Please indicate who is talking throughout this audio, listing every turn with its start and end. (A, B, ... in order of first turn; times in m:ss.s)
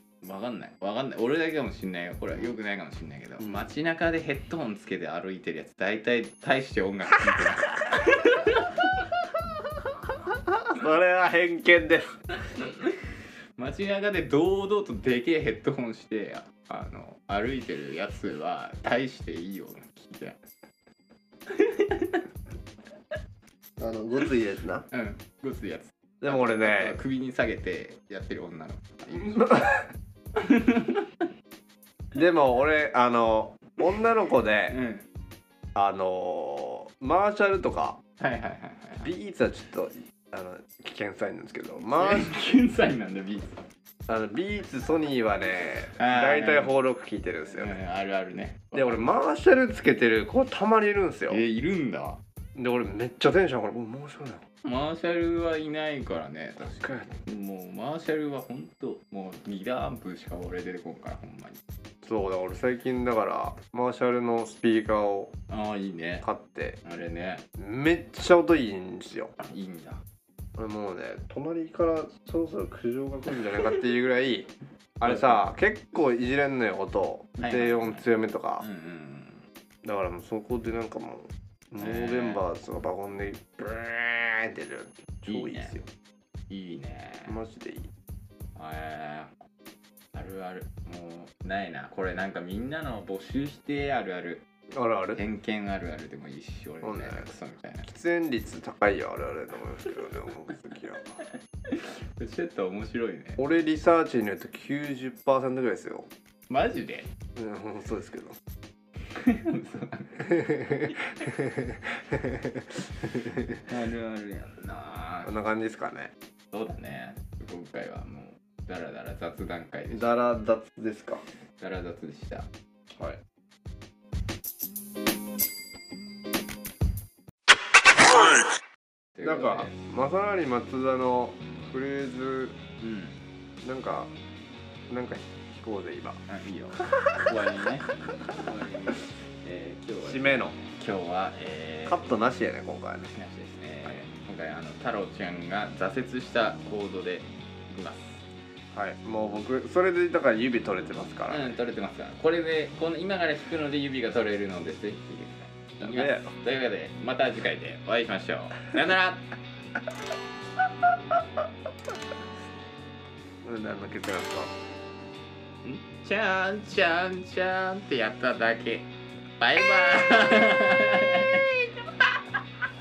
0:00.2-0:09.0 A
0:03.4-0:03.7 B
0:10.5-0:12.1 B
0:12.6-0:13.0 A
0:13.6-0:20.4 A
0:21.5-0:22.2 A
0:23.8-0:24.8 B
0:24.9-0:29.7 A
0:26.2-0:27.0 B
0:29.2-0:29.9 B
0:30.4-0:31.3 A
0:32.1-0:34.8 B
0:34.7-0:35.1 A
0:35.8-0:38.0 B
0:38.2-0:39.1 A
0:39.0-0:42.3 B
0:41.9-0:43.6 A
0:44.1-0:47.8 B
0:46.0-0:46.8 A
0:47.4-0:49.2 A
0:48.7-0:51.4 B
0:51.3-0:52.2 A
0:52.6-0:54.4 B
0:54.6-1:01.6 A
0:56.8-0:57.1 B
1:02.0-1:05.3 B
1:05.5-1:06.3 A
1:06.2-1:06.8 B
1:06.8-1:07.4 A
1:07.6-1:09.3 B
1:09.4-1:10.0 A
1:10.6-1:18.7 B
1:15.0-1:15.4 A
1:17.4-1:18.1 A
1:18.6-1:19.5 A
1:19.8-1:25.9 B
1:21.8-1:22.4 A
1:25.3-1:25.8 A
1:26.5-1:27.4 A
1:27.3-1:27.9 B
1:28.6-1:29.3 A
1:30.1-1:34.4 A
1:34.8-1:35.2 B
1:35.1-1:37.9 A
1:36.8-1:37.3 B
1:37.9-1:41.2 B
1:40.5-1:40.8 A
1:41.7-1:43.4 A
1:43.4-1:46.1 B
1:46.5-1:47.1 A
1:47.4-1:48.4 B
1:49.1-1:51.2 A
1:50.3-1:52.6 B
1:53.1-1:53.6 B
1:53.6-1:55.3 A
1:55.2-1:56.1 B
1:56.5-2:00.1 A
1:59.9-2:01.2 B
2:01.6-2:02.5 A
2:09.2-2:09.8 A
2:09.2-2:12.6 B
2:12.8-2:13.2 A
2:13.6-2:14.1 B
2:14.9-2:16.2 B
2:16.3-2:22.1 A
2:20.0-2:20.6 B
2:21.9-2:23.1 B
2:23.1-2:28.2 A
2:28.7-2:31.5 B
2:31.3-2:39.3 A
2:35.8-2:36.4 B
2:43.4-2:44.5 B
2:45.6-2:52.7 A